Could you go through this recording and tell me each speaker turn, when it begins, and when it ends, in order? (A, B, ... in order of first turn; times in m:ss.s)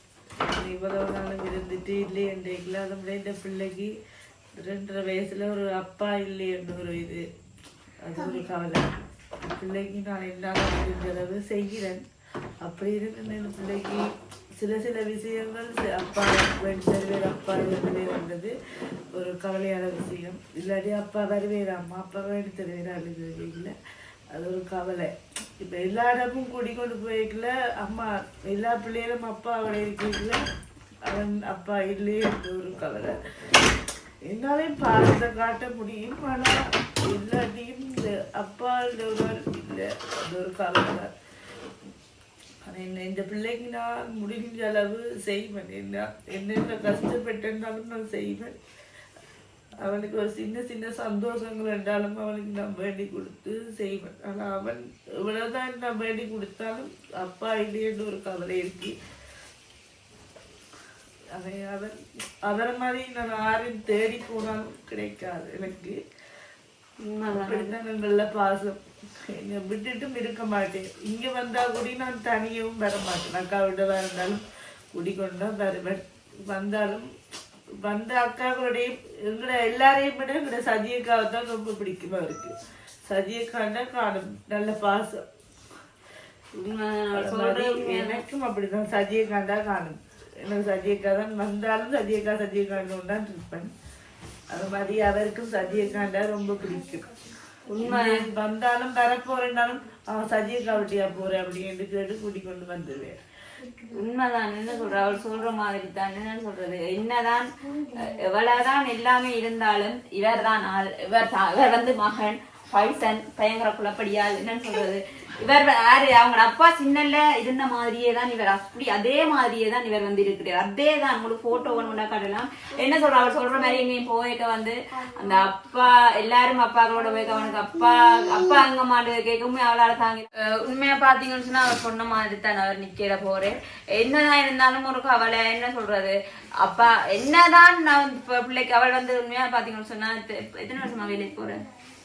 0:00.4-0:03.9 A
0:04.5-0:07.2 A
0:08.0-0:12.0 A
0:12.6-0:14.0 A
0:14.6-0:18.5 A
0:19.1-0:23.7 A
0:24.3-0:30.4 A
0:31.1-0:33.2 A
0:34.3-0:41.1 A
0:42.6-0:48.6 A
0:49.8-0:58.9 A
1:01.3-1:06.0 A
1:07.0-1:07.8 B
1:07.3-1:14.4 A
1:14.9-1:17.1 A
1:17.8-1:22.5 A
1:23.0-1:25.2 A
1:26.5-1:28.2 B
1:27.1-1:33.7 A
1:34.5-1:37.2 A
1:37.7-1:38.2 B
1:37.8-1:43.2 A
1:43.8-2:21.6 B